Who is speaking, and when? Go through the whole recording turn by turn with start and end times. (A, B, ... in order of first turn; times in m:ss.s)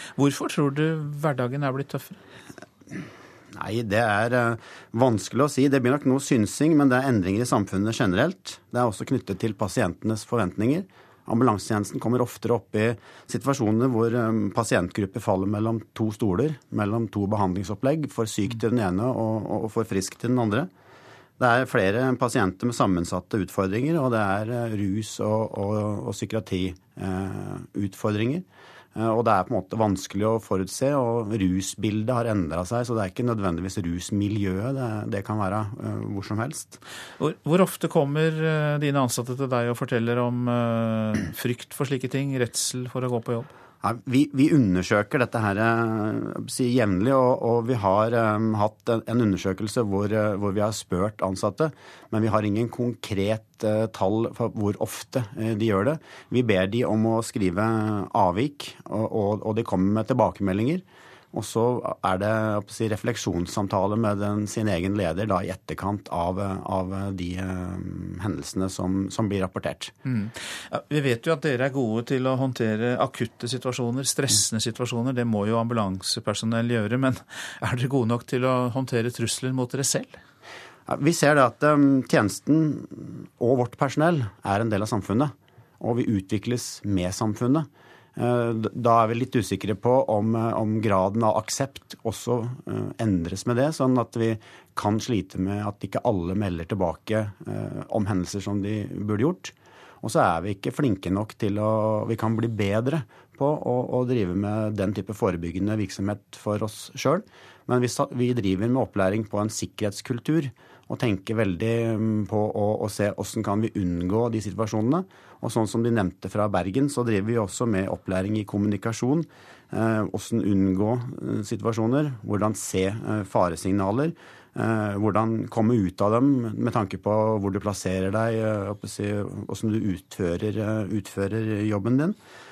0:00.2-0:02.2 A
0:03.6-0:20.7 B
0:21.4-0:28.4 B
0:29.0-0:36.8 B
0:37.2-0:43.5 A
0:43.8-1:09.9 B
1:10.1-1:20.2 A
1:20.9-2:12.2 B